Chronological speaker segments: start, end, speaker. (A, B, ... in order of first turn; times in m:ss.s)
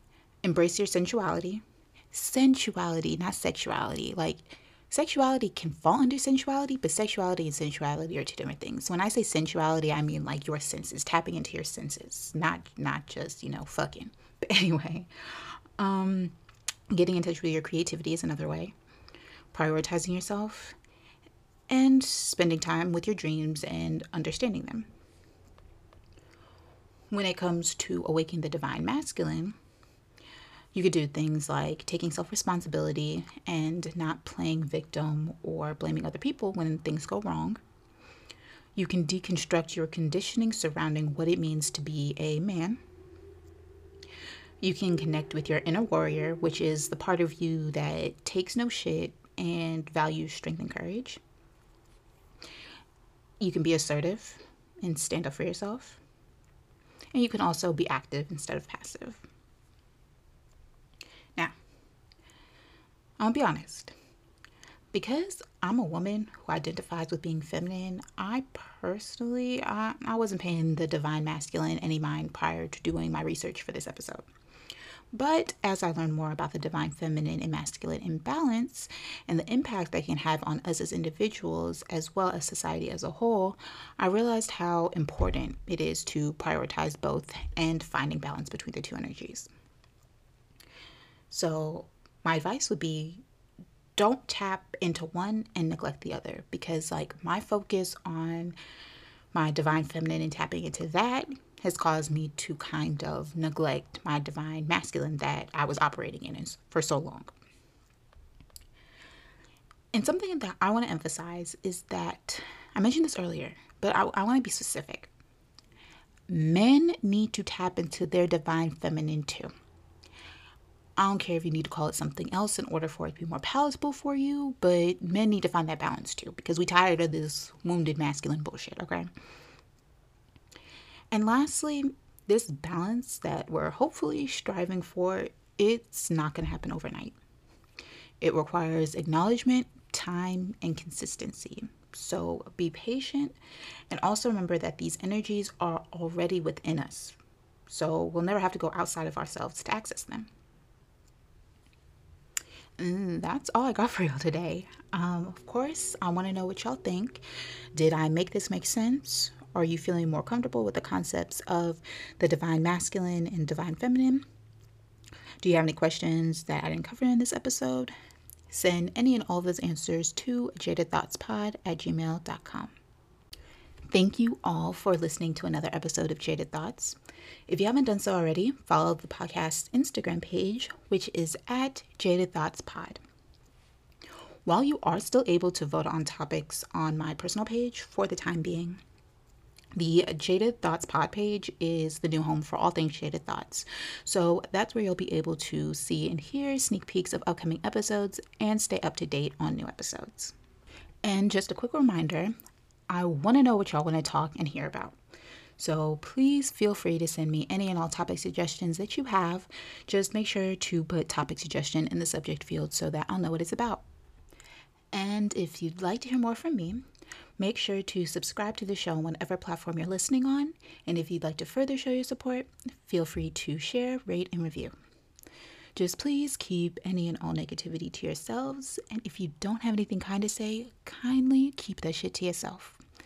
0:00.4-0:16.3 A
0:16.9-0:18.7 A
0:19.5-0:20.8 A
0:21.7-0:24.9 A
0:27.1-0:29.5 A
0:30.7-0:37.6 A
0:38.7-0:42.8 A
0:44.6-0:51.2 A
0:53.4-0:56.0 A
0:57.1-0:59.2 A
1:03.2-1:03.9 A
1:04.9-1:14.3 A
1:15.1-1:29.5 A
1:31.3-1:33.2 A
1:34.0-1:38.6 A
1:39.3-1:47.3 A
1:49.9-1:55.1 A
1:56.3-1:59.5 A
2:01.0-2:09.1 A
2:11.1-2:17.1 A
2:18.2-2:23.4 A
2:23.9-2:27.2 A
2:27.7-2:30.3 A
2:32.8-2:44.2 A
2:45.4-2:47.9 A
2:48.5-2:52.7 A
2:53.9-3:03.0 A
3:04.4-3:08.8 A
3:09.7-3:20.3 A
3:21.0-3:22.3 A
3:22.9-3:25.0 A
3:25.6-3:33.8 A
3:34.9-3:36.8 A
3:37.4-3:44.7 A
3:45.7-3:52.8 A